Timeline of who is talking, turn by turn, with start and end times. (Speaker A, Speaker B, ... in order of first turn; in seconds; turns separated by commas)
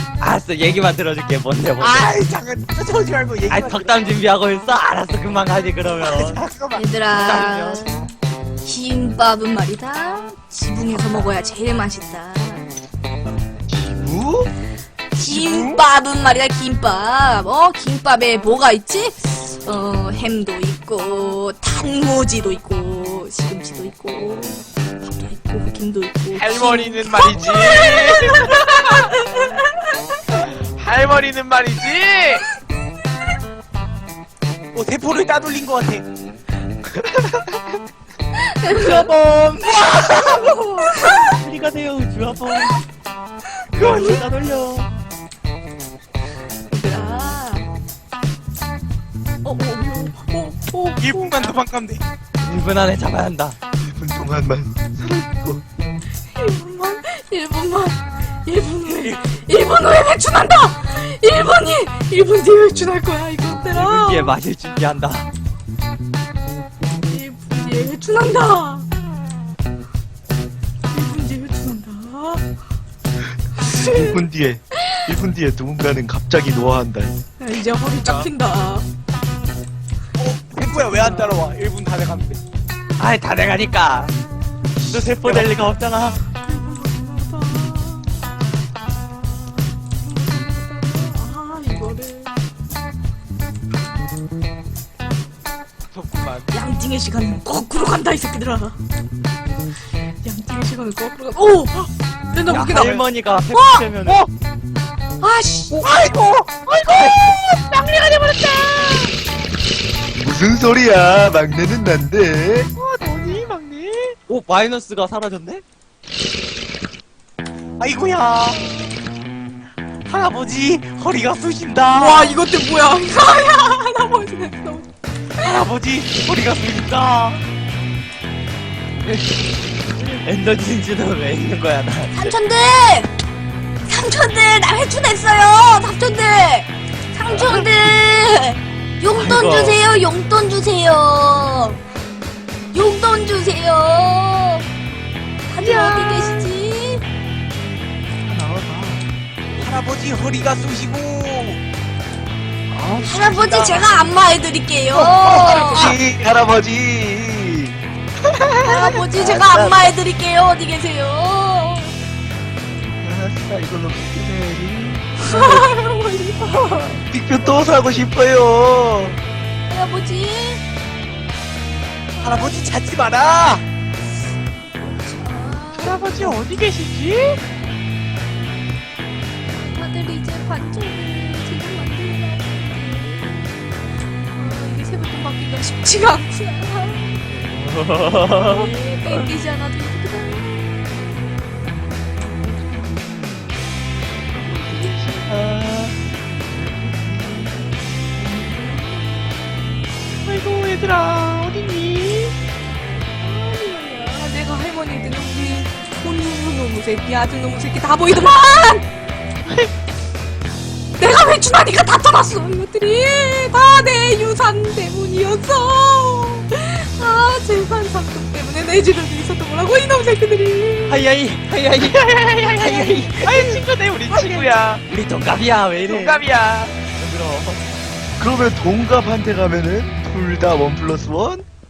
Speaker A: 0.2-2.1, Speaker B: 1.8-4.2, Speaker A: 3.5-6.4, Speaker B: 6.0-7.0, Speaker C: 6.7-12.7, Speaker A: 7.1-8.0, Speaker B: 10.9-11.3, Speaker D: 13.7-14.5, Speaker C: 15.1-30.4, Speaker D: 15.2-15.8, Speaker E: 26.3-29.1, Speaker E: 30.3-32.4, Speaker B: 34.7-36.0, Speaker C: 38.3-39.1, Speaker A: 38.7-42.8, Speaker C: 40.0-41.3, Speaker C: 43.7-44.2, Speaker B: 43.7-44.2, Speaker A: 43.7-44.9, Speaker C: 46.7-47.7, Speaker C: 49.4-51.5, Speaker B: 51.0-52.0, Speaker A: 52.4-53.6, Speaker D: 53.8-55.6, Speaker C: 56.3-64.4, Speaker B: 58.9-59.2, Speaker A: 63.6-65.3, Speaker C: 67.0-68.9, Speaker C: 70.9-72.4, Speaker D: 73.6-77.1, Speaker C: 73.6-74.2, Speaker C: 77.4-78.9, Speaker B: 80.2-82.4, Speaker C: 80.8-81.4, Speaker A: 83.0-84.1, Speaker A: 84.8-86.2, Speaker C: 86.5-88.2, Speaker C: 90.0-92.3, Speaker E: 95.9-96.5, Speaker C: 96.5-98.8, Speaker C: 100.2-104.2, Speaker A: 102.5-104.3, Speaker C: 105.2-105.8, Speaker B: 105.7-109.1, Speaker D: 110.2-112.7, Speaker B: 112.8-114.2, Speaker E: 113.3-113.7, Speaker A: 114.3-115.6, Speaker B: 117.8-118.8, Speaker B: 120.1-122.3, Speaker C: 121.9-124.9, Speaker B: 125.4-127.4, Speaker A: 129.0-129.3, Speaker A: 130.0-132.3, Speaker C: 132.1-133.1, Speaker C: 133.8-141.8, Speaker A: 139.1-139.8, Speaker C: 142.7-144.7, Speaker C: 145.5-147.0, Speaker B: 145.6-146.5, Speaker D: 148.2-149.1, Speaker B: 149.6-151.6, Speaker D: 152.7-153.9, Speaker C: 153.0-156.0, Speaker D: 154.9-157.8, Speaker B: 155.3-155.9, Speaker C: 158.6-162.0, Speaker D: 159.1-159.9, Speaker D: 163.0-165.7, Speaker C: 165.2-166.7, Speaker A: 166.5-166.9, Speaker D: 167.1-169.2, Speaker C: 169.7-170.6, Speaker C: 172.1-172.6, Speaker B: 172.2-173.6, Speaker C: 174.8-176.4, Speaker E: 175.8-177.4, Speaker C: 179.5-187.2, Speaker A: 187.3-189.2, Speaker C: 188.3-190.9, Speaker C: 194.6-195.0, Speaker A: 195.3-196.0, Speaker C: 198.2-199.0, Speaker E: 200.2-202.3, Speaker C: 203.1-208.9, Speaker C: 211.0-221.0, Speaker A: 220.9-223.5, Speaker E: 221.8-224.8, Speaker B: 223.4-224.6, Speaker A: 224.9-226.3, Speaker E: 225.8-226.8, Speaker A: 226.9-227.6, Speaker D: 228.2-231.4